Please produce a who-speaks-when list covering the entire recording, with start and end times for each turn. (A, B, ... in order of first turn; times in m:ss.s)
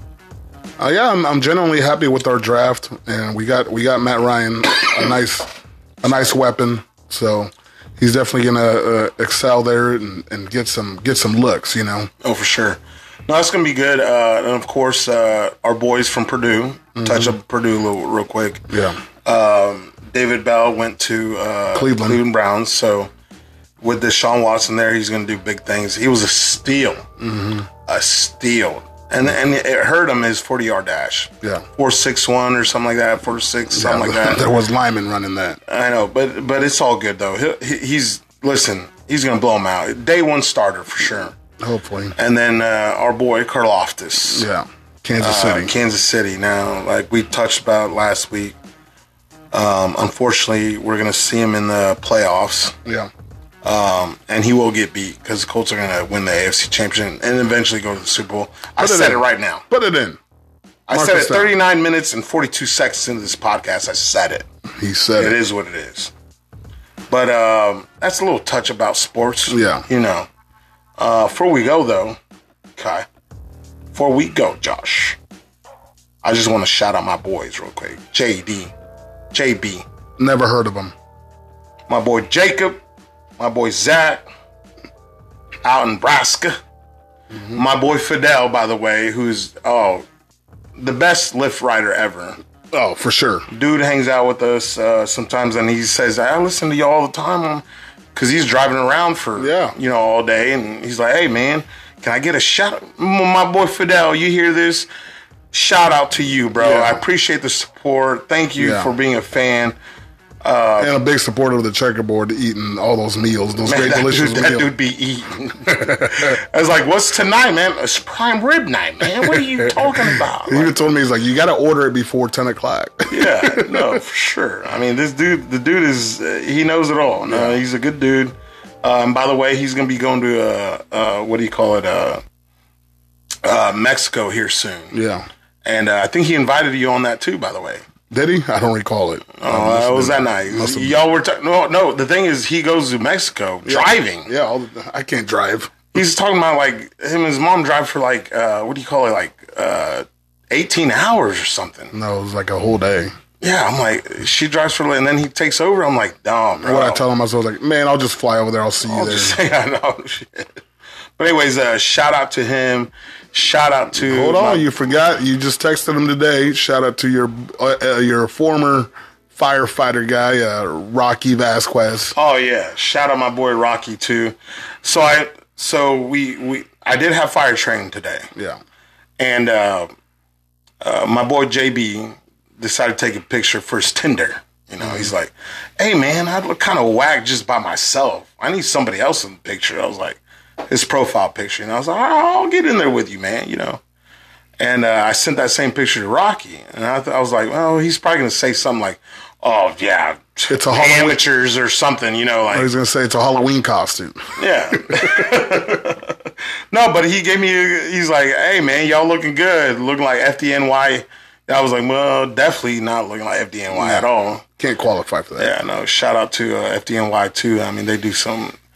0:00.8-0:12.1 A
0:12.2-0:18.7 B
0:17.0-0:17.3 A
0:18.7-0:19.0 A
0:19.2-0:23.1 B
0:21.7-0:22.2 A
0:23.8-0:27.1 B
0:27.2-0:27.7 A
0:27.8-0:34.4 B
0:33.7-0:35.6 A
0:35.7-0:41.4 B
0:41.6-0:42.1 A
0:42.2-0:44.5 B
0:44.3-0:45.7 A
0:45.2-0:48.6 B
0:49.5-0:52.8 B
0:52.8-0:53.1 A
0:53.6-0:59.6 B
0:58.8-1:00.2 A
1:00.9-1:04.4 B
1:00.9-1:01.5 A
1:04.8-1:05.4 A
1:05.2-1:06.1 B
1:07.1-1:10.3 B
1:09.5-1:09.8 A
1:11.0-1:12.2 B
1:12.8-1:13.1 B
1:13.9-1:15.2 B
1:16.2-1:18.7 B
1:19.3-1:19.8 B
1:20.2-1:20.9 A
1:21.9-1:22.8 B
1:23.4-1:24.2 B
1:25.6-1:26.6 B
1:27.3-1:27.6 A
1:27.5-1:30.0 B
1:30.8-1:32.4 B
1:32.7-1:33.5 A
1:33.5-1:44.9 B
1:39.4-1:39.7 A
1:45.5-1:49.7 B
1:46.6-1:47.0 A
1:48.6-1:48.9 A
1:50.4-1:50.9 B
1:50.8-1:54.7 A
1:53.6-2:00.8 B
1:55.7-1:56.3 A
1:59.0-2:04.0 A
2:03.1-2:12.2 B
2:07.3-2:07.6 A
2:13.4-2:14.9 B
2:14.9-2:15.2 A
2:15.6-2:17.8 B
2:18.1-2:21.0 A
2:19.4-2:24.3 B
2:23.6-2:25.9 A
2:25.9-2:31.9 B
2:31.9-2:33.1 A
2:33.4-2:37.0 B
2:36.6-2:39.4 A
2:38.8-2:40.6 B
2:41.2-2:44.7 B
2:43.9-2:52.1 A
2:52.1-2:58.3 B
2:59.2-2:59.9 B
3:00.8-3:13.8 B
3:04.8-3:05.1 A
3:14.6-3:22.7 B
3:20.5-3:21.2 A
3:22.5-3:25.4 A
3:24.4-3:34.4 B
3:33.7-3:34.1 A
3:34.6-3:35.5 A
3:35.4-3:38.5 B